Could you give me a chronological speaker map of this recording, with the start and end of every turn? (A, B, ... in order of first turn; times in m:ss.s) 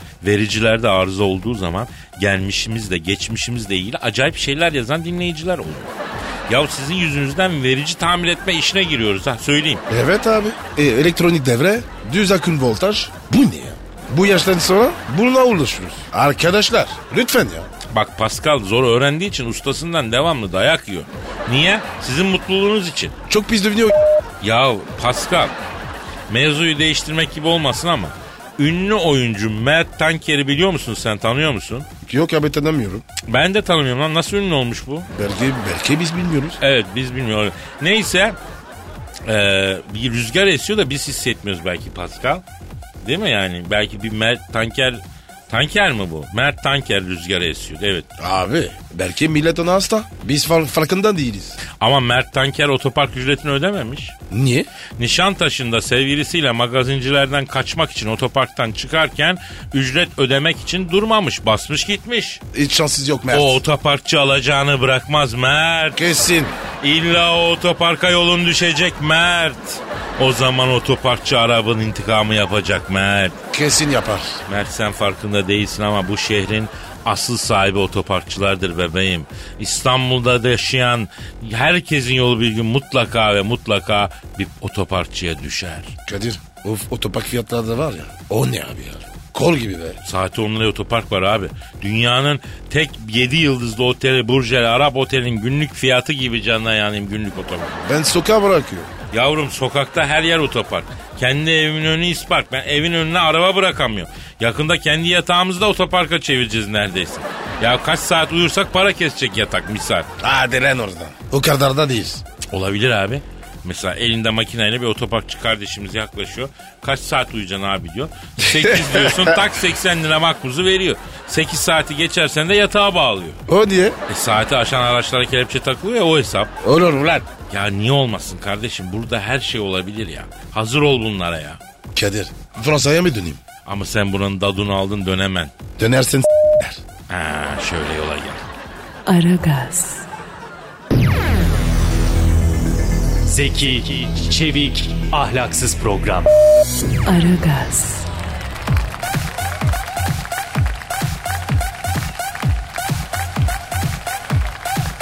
0:00.2-0:05.9 A
0:06.5-0:09.8 A
0:09.9-0:17.7 B
0:17.9-0:23.2 A
0:23.3-0:24.0 B
0:24.4-0:25.6 A
0:26.3-0:31.9 A
0:32.0-0:33.0 B
0:33.3-0:35.1 A
0:35.1-0:36.6 B
0:36.6-0:38.4 A
0:39.2-0:42.4 A
0:43.0-0:48.1 A
0:48.2-0:51.6 B
0:51.7-0:54.2 A
0:54.3-0:54.7 B
0:55.0-1:02.4 A
1:02.5-1:03.6 B
1:03.3-1:06.0 A
1:06.0-1:06.6 B
1:06.8-1:13.4 A
1:13.5-1:14.4 B
1:14.5-1:25.9 A
1:26.1-1:30.0 B
1:30.0-1:37.7 A
1:37.8-1:38.9 B
1:39.1-1:50.1 A
1:50.2-1:52.2 B
1:52.5-2:03.4 A
1:58.4-1:59.5 B
2:03.5-2:04.0 B
2:04.1-2:06.5 A
2:06.6-2:07.3 B
2:07.5-2:11.6 A
2:11.9-2:13.4 B
2:13.6-2:15.5 A
2:15.8-2:16.8 B
2:17.1-2:18.4 A
2:19.1-2:20.1 C
2:23.2-2:26.3 D
2:27.0-2:28.1 C